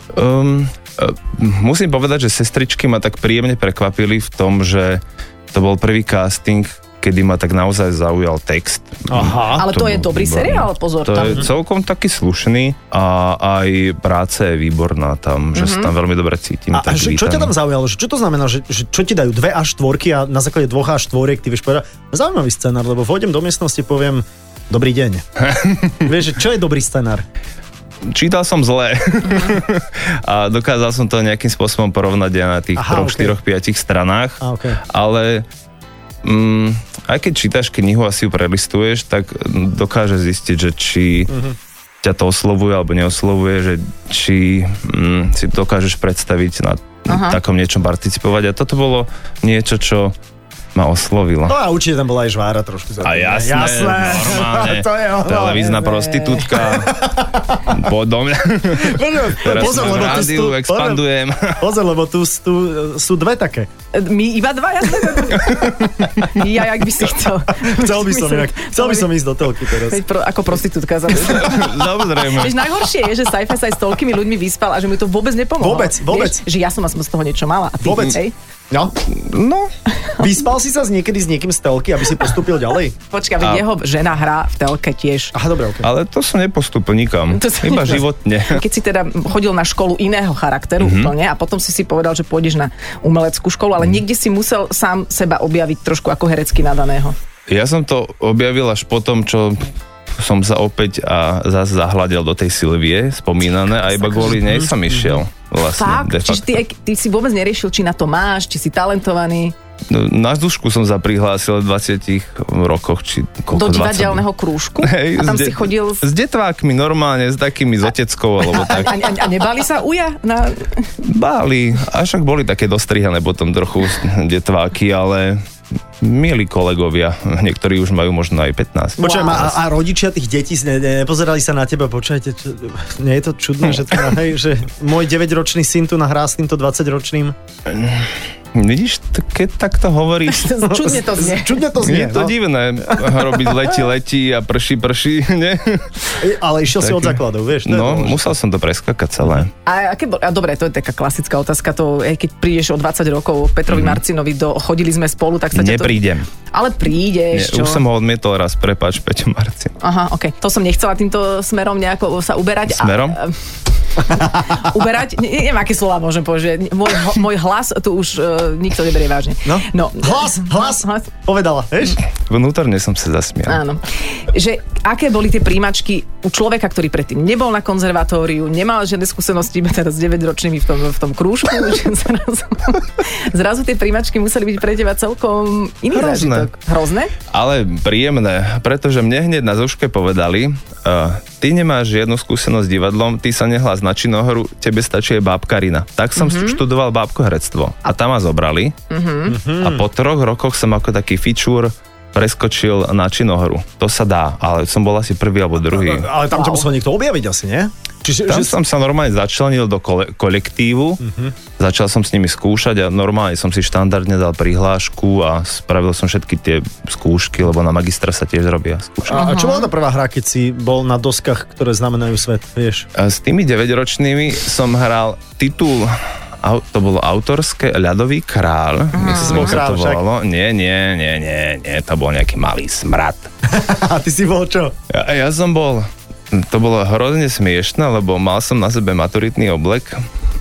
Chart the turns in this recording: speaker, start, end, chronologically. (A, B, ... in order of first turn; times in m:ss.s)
0:00.1-0:17.5 A
0:09.1-0:09.7 B
0:09.6-0:11.5 C
0:15.5-0:15.9 C
0:16.7-0:25.2 B
0:25.4-0:26.1 A
0:26.0-0:27.2 B
0:28.0-0:35.4 A
0:32.8-0:33.4 B
0:34.4-0:34.8 B
0:36.2-0:41.3 A
0:41.3-0:41.6 B
0:42.0-0:50.2 A
0:47.1-0:47.4 C
0:50.7-0:51.6 A
0:51.5-0:55.8 B
0:53.0-0:57.1 A
0:55.6-0:56.5 C
0:56.6-0:57.8 B
0:57.6-1:01.6 A
0:58.8-1:01.0 B
1:01.6-1:03.7 B
1:03.9-1:09.1 C
1:05.4-1:06.0 A
1:07.6-1:10.0 B
1:09.8-1:18.3 C
1:11.1-1:12.7 A
1:15.6-1:16.4 B
1:17.8-1:18.2 B
1:19.1-1:19.7 A
1:20.2-1:22.9 B
1:23.1-1:25.3 C
1:25.3-1:25.9 B
1:25.8-1:28.6 A
1:27.3-1:37.2 C
1:30.8-1:31.1 A
1:37.5-1:46.5 A
1:43.8-1:44.4 C
1:44.3-1:45.2 B
1:45.8-1:49.5 C
1:49.9-1:54.2 A
1:53.5-1:56.0 C
1:54.8-1:59.2 A
1:58.4-2:00.9 C
2:01.0-2:05.4 A
2:06.0-2:09.6 A
2:09.0-2:17.4 B
2:09.0-2:09.5 C
2:17.7-2:20.7 A
2:20.3-2:21.7 C
2:20.7-2:22.3 B
2:21.8-2:26.2 A
2:22.9-2:23.2 B
2:26.2-2:28.3 B
2:26.8-2:29.5 A
2:29.6-2:36.0 C
2:33.7-2:34.0 A
2:35.5-2:36.3 A
2:36.5-2:37.8 C
2:37.3-2:39.7 A
2:39.8-2:43.4 C
2:42.7-2:43.2 A
2:44.0-2:51.1 C
2:49.4-2:52.0 B
2:52.1-2:53.6 A
2:53.5-3:07.1 C
3:05.9-3:06.5 A
3:07.3-3:18.8 A
3:16.2-3:16.6 C
3:18.9-3:19.4 C
3:19.3-3:19.8 B
3:19.6-3:26.1 A
3:25.6-3:28.5 B
3:26.3-3:26.7 C
3:28.3-3:31.0 A
3:31.0-3:31.3 B
3:31.6-3:39.2 A
3:39.1-3:42.8 B
3:39.1-3:39.7 C
3:43.0-3:53.3 A
3:48.9-3:49.6 C
3:49.1-3:50.0 B
3:53.4-3:54.8 B
3:54.9-4:00.0 A